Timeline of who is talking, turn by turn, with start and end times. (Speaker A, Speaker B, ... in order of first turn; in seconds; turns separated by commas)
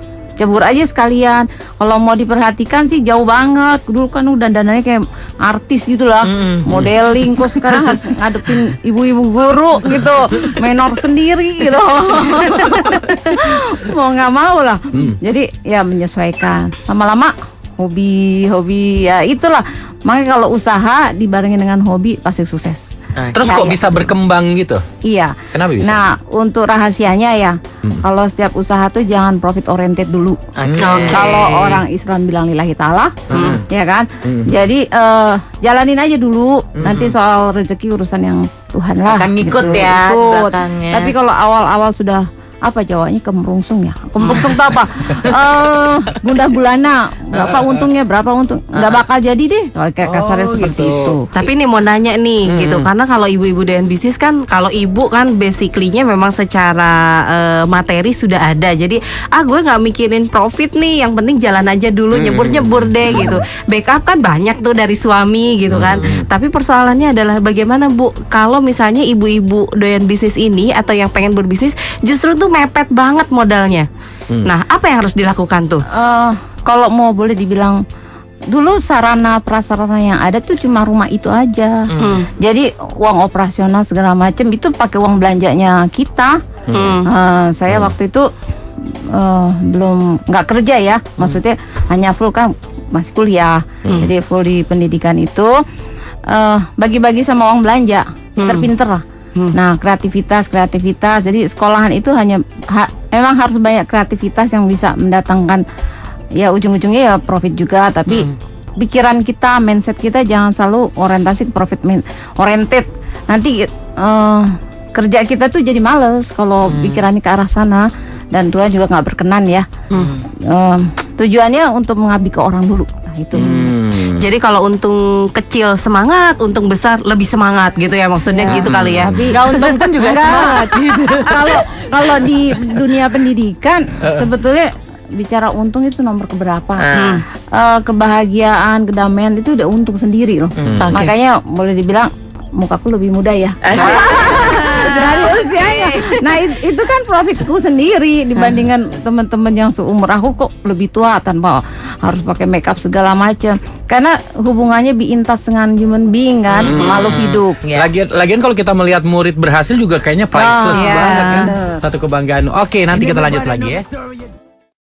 Speaker A: 0.4-24.1, Speaker B: 6.3-6.7, Speaker B: 23.2-23.5, Speaker C: 23.3-24.8, Speaker A: 25.1-30.4, Speaker C: 25.5-26.1, Speaker B: 30.6-31.3, Speaker C: 30.6-31.1, Speaker D: 30.8-31.8, Speaker A: 31.0-51.3, Speaker C: 33.3-33.6, Speaker D: 33.3-33.6, Speaker C: 34.2-34.5, Speaker C: 36.8-37.1, Speaker B: 39.1-41.1, Speaker B: 44.2-44.5, Speaker B: 47.3-47.8, Speaker C: 50.1-51.1, Speaker D: 51.4-73.9, Speaker C: 52.5-52.9, Speaker C: 62.1-63.3, Speaker C: 65.7-66.3, Speaker D: 74.5-75.8, Speaker A: 75.9-77.8, Speaker A: 78.5-86.4, Speaker B: 81.9-82.2, Speaker D: 82.0-82.3, Speaker D: 86.7-87.1, Speaker A: 87.0-88.3, Speaker A: 89.1-95.5, Speaker A: 96.3-99.0, Speaker D: 98.4-98.7, Speaker A: 99.5-105.6, Speaker A: 106.4-119.7, Speaker B: 108.1-108.3, Speaker B: 116.7-117.0, Speaker A: 120.5-123.6, Speaker C: 123.3-124.3, Speaker D: 123.4-131.2, Speaker A: 128.3-129.4, Speaker C: 128.5-129.3, Speaker B: 129.3-131.6, Speaker A: 130.0-136.9, Speaker B: 136.8-137.2, Speaker D: 137.0-137.2, Speaker A: 137.5-157.6, Speaker B: 140.6-140.9, Speaker C: 140.6-140.9, Speaker D: 140.8-141.1, Speaker B: 143.6-144.4, Speaker D: 143.8-146.3, Speaker B: 148.4-148.7, Speaker C: 156.6-157.2, Speaker B: 156.7-157.9, Speaker C: 157.8-163.9, Speaker A: 160.3-161.8, Speaker D: 160.8-161.5